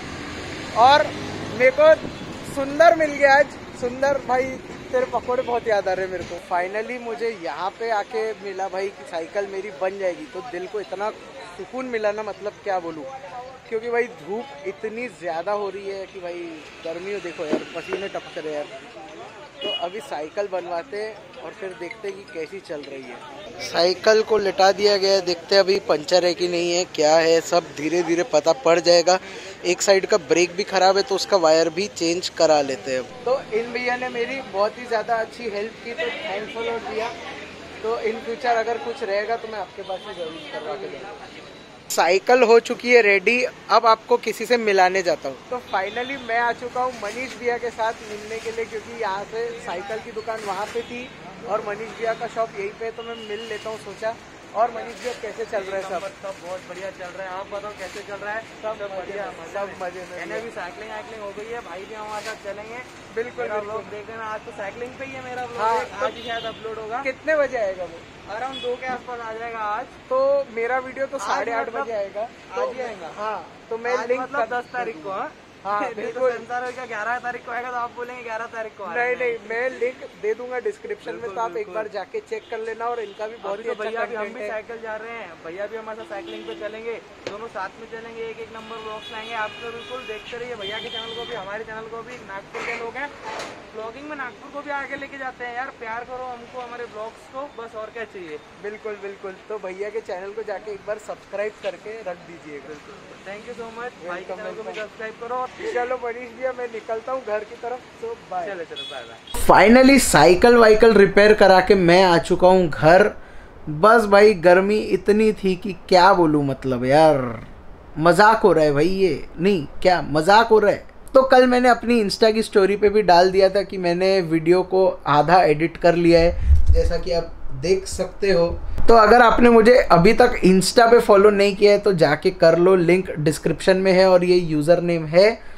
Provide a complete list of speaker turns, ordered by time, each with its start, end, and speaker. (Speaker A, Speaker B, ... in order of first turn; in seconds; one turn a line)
Speaker A: 0.7-13.1
Speaker A: 13.7-18.7
Speaker A: 19.6-37.1
Speaker A: 37.8-41.2
Speaker A: 41.9-56.1
Speaker B: 55.5-67.1
Speaker A: 58.6-60.5
Speaker A: 63.1-63.9
Speaker A: 65.5-66.2
Speaker A: 67.0-68.1
Speaker B: 68.2-70.0
Speaker A: 70.1-76.5
Speaker B: 71.2-71.9
Speaker B: 72.5-73.2
Speaker B: 73.8-79.8
Speaker A: 78.8-84.6
Speaker B: 81.0-81.9
Speaker B: 83.4-93.1
Speaker B: 93.7-98.4
Speaker A: 98.6-102.8
Speaker B: 102.7-105.8
Speaker A: 104.0-104.8
Speaker A: 105.6-108.5
Speaker B: 108.4-109.2
Speaker A: 109.3-113.1
Speaker A: 113.7-117.5
Speaker A: 118.0-135.4